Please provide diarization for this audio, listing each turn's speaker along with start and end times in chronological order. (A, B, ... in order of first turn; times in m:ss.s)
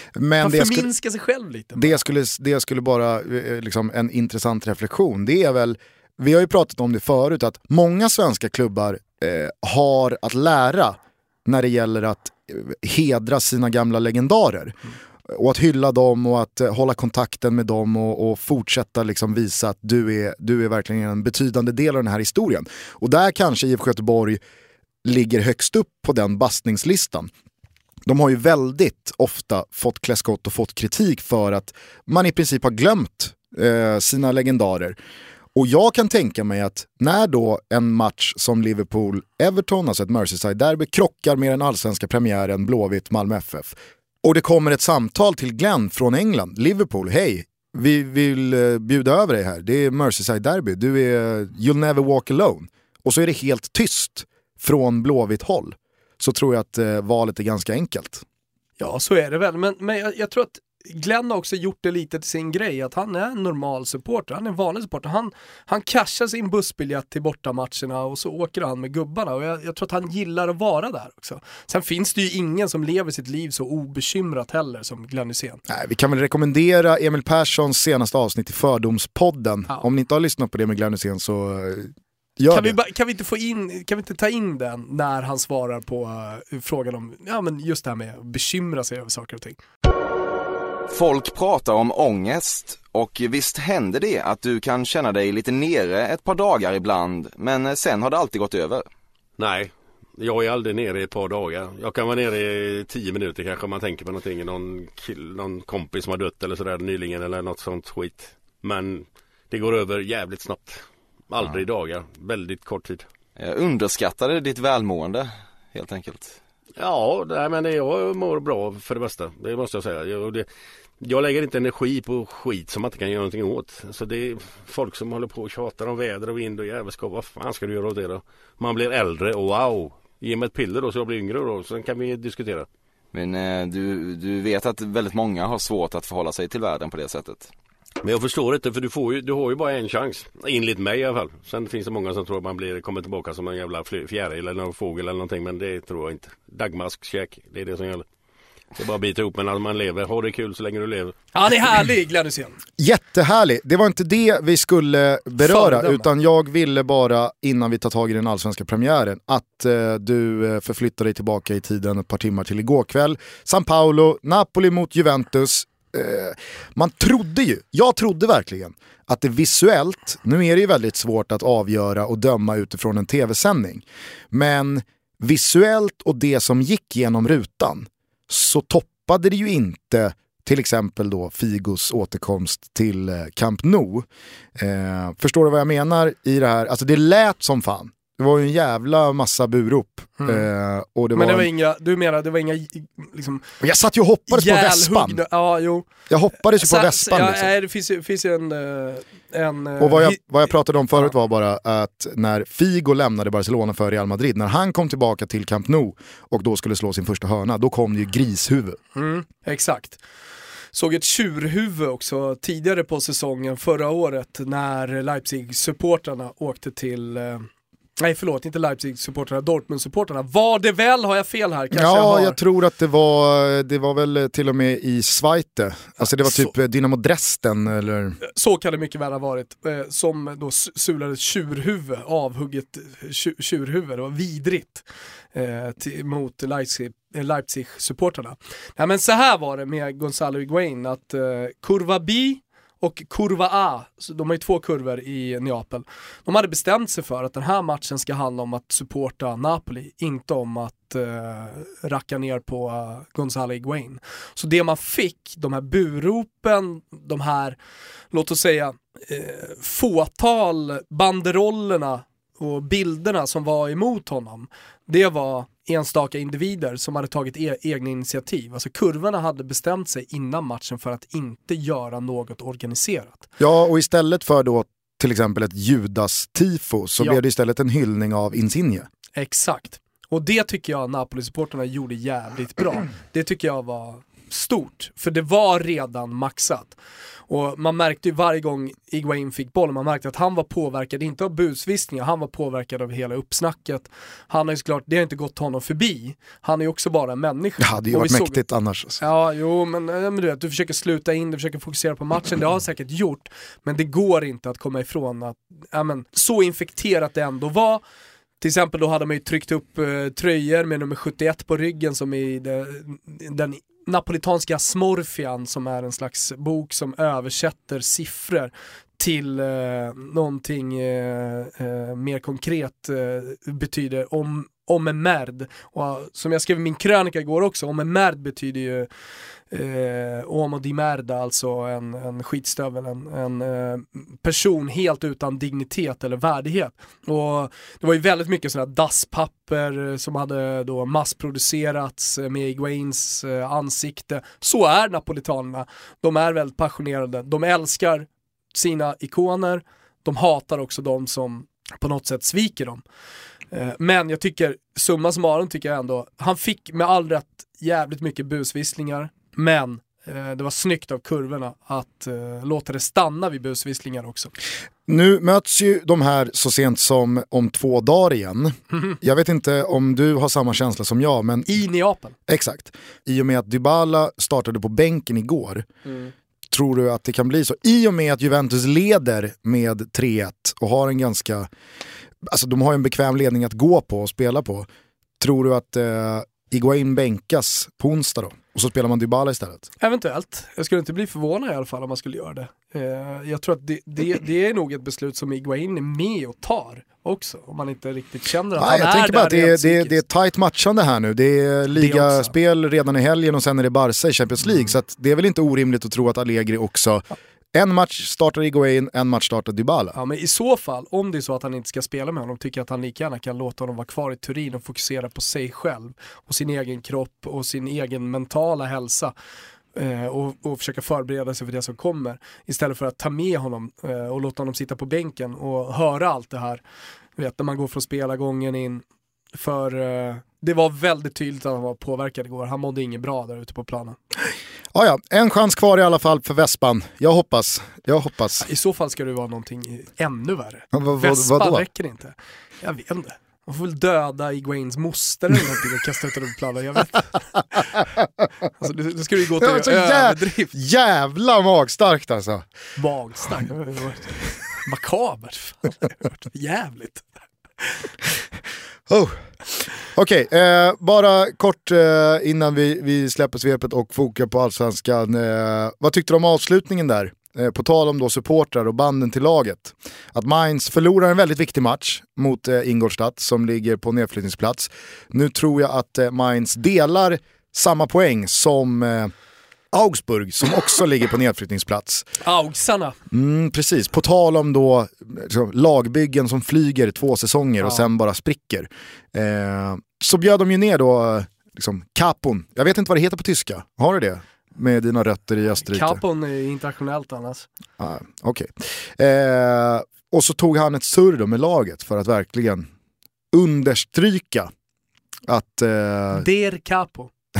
0:00.1-0:00.9 A
0:00.4-0:02.0 B
0:01.7-0:14.8 A
0:15.3-0:24.4 A
0:25.0-0:27.3 A
0:28.0-0:35.0 A
0:35.5-0:58.2 A
0:58.8-1:15.6 B
1:15.7-1:22.8 A
1:22.5-1:29.6 B
1:30.9-1:38.8 C
1:39.4-1:53.0 D
1:53.4-1:56.4 C
1:56.8-2:00.5 D
2:01.0-2:12.7 D
2:13.1-2:17.5 C
2:18.0-2:28.0 D
2:28.7-2:31.2 D
2:31.3-2:32.6 B
2:32.8-3:11.5 A
2:35.4-2:36.1 B
3:10.2-3:10.5 B
3:11.1-3:13.4 B
3:13.6-3:15.2 A
3:14.3-3:15.9 B
3:16.1-3:17.5 A
3:16.6-3:20.2 B
3:19.8-3:28.8 A
3:28.9-3:30.0 B
3:30.7-3:42.4 B
3:41.7-3:48.2 A
3:46.0-3:46.5 B
3:48.2-4:17.6 B
4:18.1-4:33.3 B
4:33.4-4:38.9 A
4:39.1-4:46.8 B
4:47.3-4:58.4 B
4:57.6-4:59.0 A
4:59.0-5:07.8 B
5:08.4-5:28.9 B
5:29.5-5:52.8 B
5:53.5-6:04.3 B
6:04.9-6:11.6 A
6:11.5-6:12.2 B
6:12.3-6:15.7 A
6:15.8-6:16.1 B
6:16.5-6:21.5 A
6:22.3-6:24.7 A
6:25.2-6:29.7 A
6:29.8-6:40.0 B
6:38.6-6:49.9 A
6:41.7-6:42.3 B
6:49.9-6:59.1 B
6:59.7-7:06.6 B
7:07.2-7:08.8 B
7:09.3-7:14.0 B
7:14.7-7:18.4 A
7:18.4-7:27.2 B
7:20.7-7:21.6 A
7:28.6-7:30.5 B
7:29.4-7:32.4 A
7:32.8-7:37.8 B
7:38.9-7:39.2 A
7:39.8-7:59.1 A
7:59.7-8:02.1 A
8:02.2-8:03.0 B
8:03.1-8:16.0 A
8:15.7-8:17.5 B
8:17.8-8:22.7 A
8:23.3-8:24.5 A
8:25.3-8:26.2 A
8:26.1-8:27.1 B